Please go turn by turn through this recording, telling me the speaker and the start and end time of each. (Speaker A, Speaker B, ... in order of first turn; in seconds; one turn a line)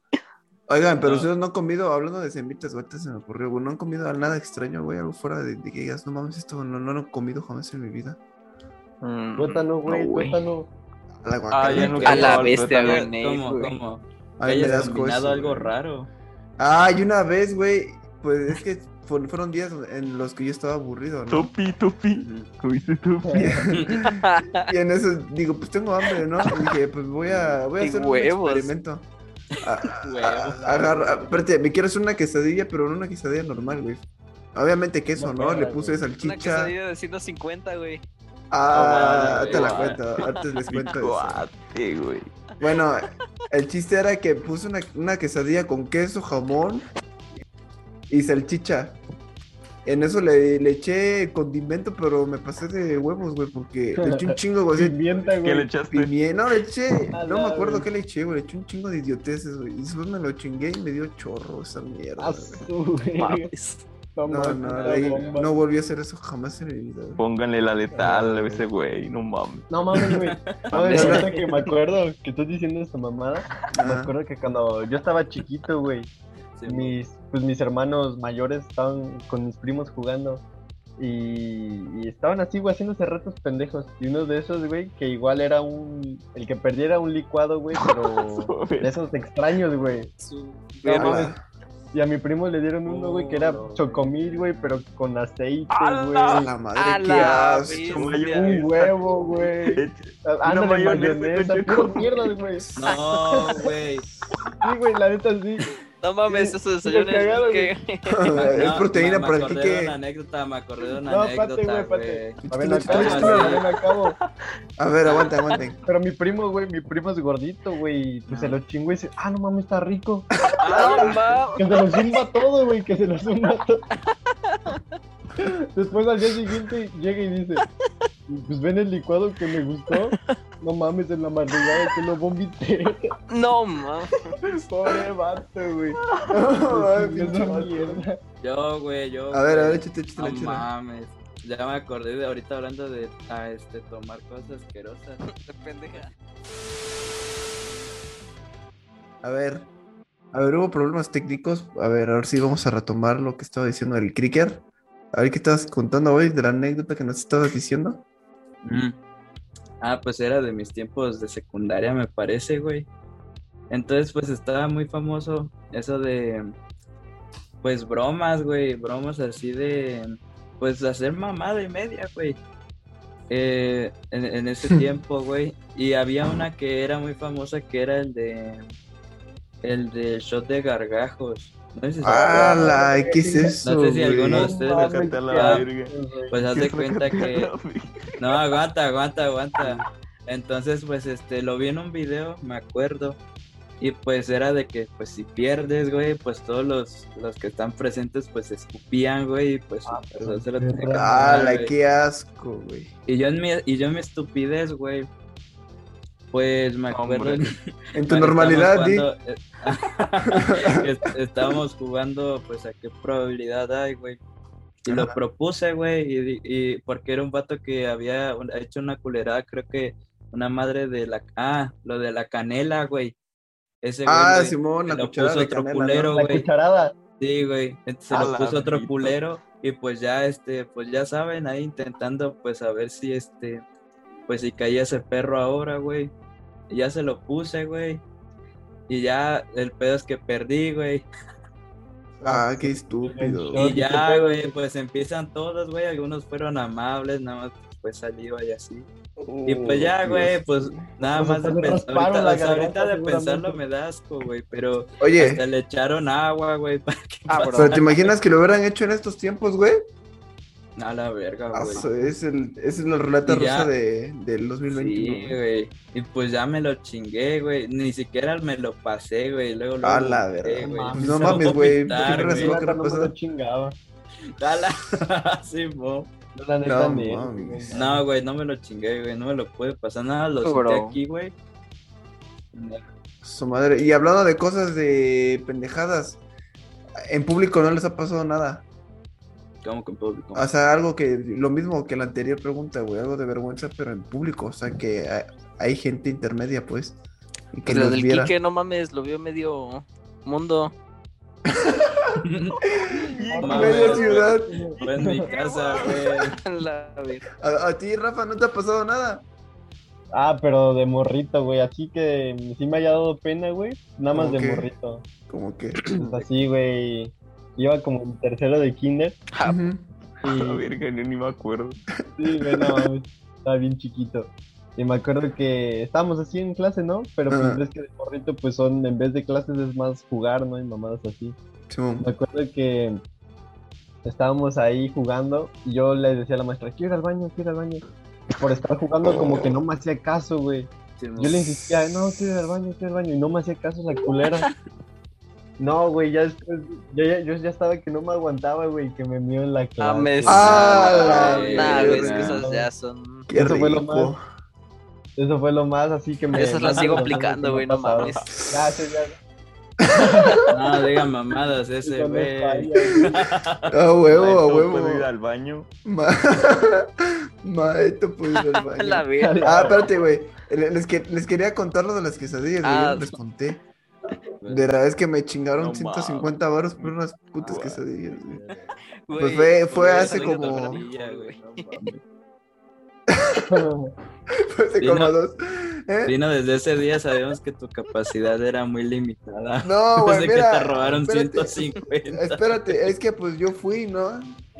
Speaker A: 0.7-8.2
Speaker B: 1.0-1.3
Speaker C: 9.0-10.3
Speaker D: 9.4-10.7
Speaker A: 11.2-12.7
Speaker E: 11.5-13.1
Speaker C: 11.6-13.8
Speaker B: 11.7-16.1
Speaker A: 14.4-15.7
Speaker A: 16.6-21.5
Speaker E: 21.3-23.5
Speaker B: 22.1-22.5
Speaker D: 23.2-23.7
Speaker A: 23.3-29.1
Speaker C: 24.0-24.7
Speaker B: 27.2-27.6
Speaker C: 27.8-28.7
Speaker A: 29.6-34.0
Speaker B: 29.9-31.2
Speaker D: 30.6-31.3
Speaker A: 34.5-36.7
Speaker D: 35.1-36.0
Speaker C: 36.2-38.0
Speaker A: 38.5-41.5
Speaker B: 38.7-40.0
Speaker E: 38.8-40.0
Speaker C: 40.2-40.7
Speaker E: 40.7-42.3
Speaker A: 42.6-46.9
Speaker A: 48.1-49.0
Speaker A: 49.9-55.0
Speaker D: 54.0-55.7
Speaker E: 55.3-56.1
Speaker A: 55.9-62.7
Speaker D: 57.1-57.9
Speaker D: 62.2-63.5
Speaker C: 63.2-63.9
Speaker D: 64.2-65.5
Speaker A: 64.3-67.2
Speaker B: 64.6-65.6
Speaker E: 67.2-70.2
Speaker D: 67.9-68.6
Speaker D: 69.7-76.1
Speaker B: 70.2-71.2
Speaker A: 70.9-71.3
Speaker A: 73.7-74.1
Speaker B: 76.6-77.0
Speaker D: 76.7-80.4
Speaker D: 81.0-90.1
Speaker E: 87.7-89.0
Speaker C: 90.2-91.2
Speaker D: 90.8-91.3
Speaker A: 90.9-91.4
Speaker D: 91.9-96.5
Speaker B: 92.9-94.8
Speaker E: 95.7-96.5
Speaker A: 96.3-98.1
Speaker C: 96.8-98.7
Speaker E: 97.1-99.0
Speaker D: 98.2-102.7
Speaker E: 99.5-102.4
Speaker A: 102.6-103.0
Speaker B: 102.8-104.1
Speaker C: 102.9-103.7
Speaker D: 103.3-103.6
Speaker D: 104.6-105.7
Speaker C: 106.0-108.5
Speaker D: 106.3-107.7
Speaker A: 108.0-110.0
Speaker B: 108.3-113.7
Speaker D: 111.1-114.2
Speaker A: 112.4-113.6
Speaker A: 114.8-115.8
Speaker D: 115.9-121.0
Speaker B: 118.3-118.6
Speaker A: 120.5-121.1
Speaker B: 120.6-121.4
Speaker C: 120.7-122.2
Speaker D: 121.6-123.8
Speaker D: 125.4-127.7
Speaker D: 128.3-133.1
Speaker C: 133.3-134.3
Speaker D: 134.6-136.0
Speaker A: 136.3-138.1
Speaker D: 136.7-138.2
Speaker B: 138.4-145.2
Speaker A: 139.3-140.7
Speaker C: 145.2-146.1
Speaker A: 149.2-149.7
Speaker A: 150.3-158.0
Speaker B: 158.6-158.9
Speaker B: 159.8-162.9
Speaker B: 163.7-166.5
Speaker B: 167.6-172.4
Speaker B: 173.3-178.7
Speaker B: 179.6-182.8
Speaker A: 182.0-184.6
Speaker D: 182.1-183.6
Speaker B: 183.6-185.7
Speaker D: 184.3-186.3
Speaker E: 184.6-188.4
Speaker B: 186.3-187.5
Speaker B: 188.2-193.2
Speaker B: 193.8-201.7
Speaker D: 199.9-201.2
Speaker A: 200.9-202.9
Speaker B: 203.1-205.1
Speaker B: 206.3-207.5
Speaker E: 206.9-207.4
Speaker A: 207.9-209.1
Speaker B: 208.1-214.2
Speaker A: 210.3-210.9
Speaker B: 214.9-223.2
Speaker A: 214.9-215.2
Speaker B: 223.8-226.5
Speaker A: 224.1-226.2
Speaker D: 226.1-226.9
Speaker B: 227.2-233.6
Speaker E: 228.1-229.2
Speaker B: 234.3-236.1
Speaker B: 236.7-238.0
Speaker B: 238.9-241.1
Speaker A: 242.2-243.7
Speaker D: 242.2-244.5
Speaker B: 243.6-248.9
Speaker A: 249.2-250.8
Speaker B: 249.4-257.8
Speaker D: 251.1-253.6
Speaker A: 255.0-255.4
Speaker C: 257.3-257.9
Speaker A: 257.5-259.9
Speaker B: 260.8-261.9
Speaker A: 261.5-265.4
Speaker B: 263.2-263.7
Speaker B: 264.7-272.6
Speaker A: 269.8-273.1
Speaker D: 270.6-273.8
Speaker B: 274.4-276.1
Speaker D: 276.4-278.0
Speaker A: 276.6-277.8
Speaker B: 277.7-281.3
Speaker C: 280.4-281.0
Speaker B: 282.5-282.8
Speaker A: 283.2-286.2
Speaker A: 287.1-288.6
Speaker B: 289.6-290.5
Speaker A: 290.4-297.0
Speaker A: 297.5-298.3
Speaker C: 297.7-300.7
Speaker A: 301.6-302.1
Speaker B: 302.2-302.6
Speaker A: 302.8-304.6
Speaker E: 303.0-306.1
Speaker D: 303.3-305.2
Speaker B: 303.4-306.4
Speaker C: 306.3-307.2
Speaker A: 307.4-309.2
Speaker D: 310.1-315.0
Speaker A: 314.1-314.7
Speaker A: 315.3-316.2
Speaker D: 316.0-319.2
Speaker C: 319.4-319.7
Speaker A: 319.4-319.9
Speaker D: 320.2-320.6
Speaker E: 320.2-321.8
Speaker D: 322.2-331.4
Speaker A: 322.5-322.8
Speaker A: 327.3-327.6
Speaker A: 331.7-332.1
Speaker D: 332.0-333.0
Speaker D: 334.1-337.8
Speaker D: 338.4-344.5
Speaker B: 341.0-341.4
Speaker D: 345.6-350.9
Speaker C: 349.8-353.3
Speaker A: 350.3-352.4
Speaker B: 350.8-352.4
Speaker D: 351.9-352.7
Speaker A: 353.3-354.2
Speaker D: 353.4-354.1
Speaker D: 355.2-359.2
Speaker C: 356.3-358.3
Speaker B: 356.6-357.1
Speaker A: 359.9-360.5
Speaker D: 359.9-360.5
Speaker B: 360.5-363.6
Speaker D: 361.8-363.1
Speaker A: 363.7-365.1
Speaker E: 364.1-365.7
Speaker A: 365.9-373.6
Speaker C: 368.4-369.8
Speaker D: 369.2-369.9
Speaker C: 372.6-373.2
Speaker A: 374.5-378.5
Speaker E: 375.6-377.8
Speaker C: 379.1-381.9
Speaker A: 379.2-380.8
Speaker B: 379.7-382.0
Speaker A: 383.1-383.5
Speaker D: 383.5-383.9
Speaker A: 384.3-386.2
Speaker B: 384.8-385.1
Speaker B: 386.1-392.4
Speaker A: 389.6-394.4